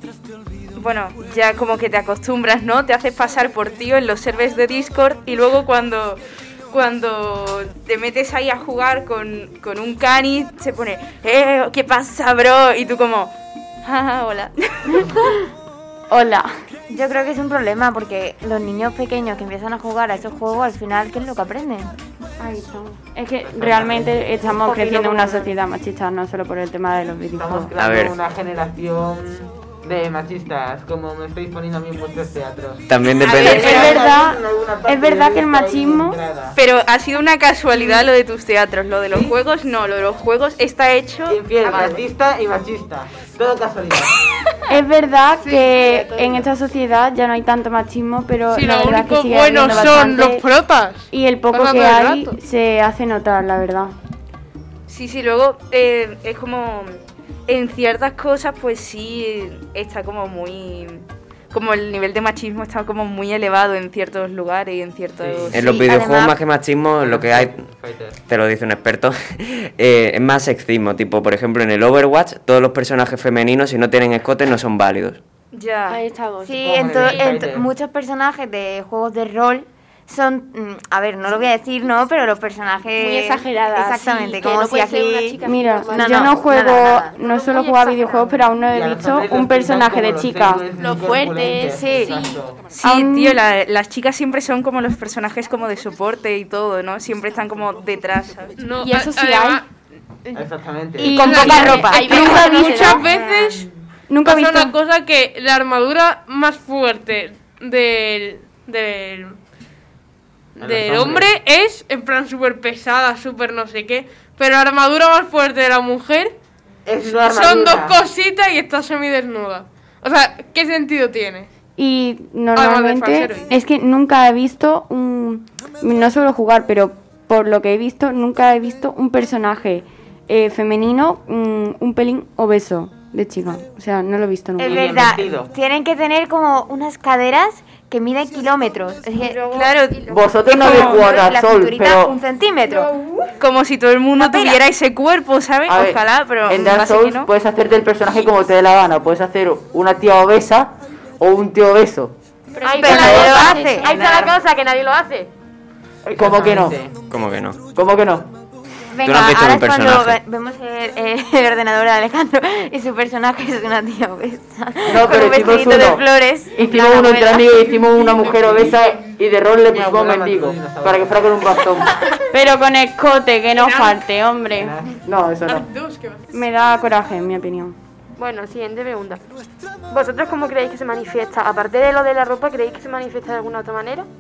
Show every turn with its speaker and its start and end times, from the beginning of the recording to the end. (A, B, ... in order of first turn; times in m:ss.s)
0:00.7-0:15.2 A
0:16.1-0:16.5 B
0:16.9-0:21.9 C
0:22.4-0:27.7 B
0:23.4-0:25.2 D
0:25.1-0:25.5 E
0:27.3-0:36.5 D
0:27.8-0:28.1 F
0:32.9-0:33.8 F
0:33.3-0:33.9 A
0:33.3-0:33.9 G
0:33.4-0:36.2 B
0:36.5-0:42.0 A
0:41.3-0:44.1 D
0:44.7-0:50.4 B
0:45.5-0:46.3 E
0:48.5-0:52.4 G
0:51.1-0:53.9 B
0:54.9-1:06.0 A
1:05.2-1:05.6 D
1:05.5-1:07.6 F
1:05.6-1:06.4 C
1:07.0-1:08.2 D
1:08.3-1:15.2 F
1:15.5-1:16.0 A
1:15.9-1:17.1 H
1:16.4-1:27.2 C
1:16.6-1:17.7 D
1:23.0-1:26.4 H
1:25.4-1:30.6 B
1:27.2-1:28.5 E
1:28.7-1:32.6 D
1:30.8-1:32.3 H
1:31.7-1:32.2 C
1:32.7-1:38.5 A
1:32.8-1:33.4 B
1:38.5-1:39.6 G
1:38.8-1:39.6 H
1:40.3-1:41.2 D
1:41.0-1:42.9 C
1:41.0-1:43.2 H
1:41.4-1:41.8 I
1:41.4-1:43.7 G
1:44.1-1:44.8 B
1:44.2-1:49.4 G
1:50.6-1:56.4 G
1:50.6-1:51.3 D
1:56.8-1:58.0 D
1:57.0-2:01.5 G
2:01.8-2:14.8 B
2:02.5-2:03.5 G
2:14.6-2:15.5 D
2:14.6-2:19.5 C
2:19.1-2:21.3 E
2:19.5-2:21.1 A
2:20.1-2:22.2 I
2:20.5-2:22.9 C
2:22.6-2:23.3 E
2:23.4-2:27.3 A
2:24.2-2:24.6 C
2:25.7-2:32.2 I
2:32.6-2:34.1 H
2:32.6-2:35.3 E
2:32.8-2:33.9 C
2:32.8-2:34.3 I
2:34.0-2:34.3 D
2:36.0-2:36.8 I
2:36.2-2:36.9 D
2:37.1-2:37.6 F
2:37.7-2:38.3 I
2:38.9-2:47.2 C
2:39.0-2:40.2 F
2:44.8-2:51.9 I
2:46.6-2:47.3 B
2:47.5-2:48.5 G
2:48.4-2:48.8 D
2:49.7-2:51.6 D
2:52.3-2:54.7 B
2:53.5-2:54.0 G
2:54.5-2:55.0 D
2:55.0-2:55.7 I
2:55.4-2:56.5 G
2:56.3-2:57.7 B
2:58.2-2:59.2 E
2:59.9-3:04.1 E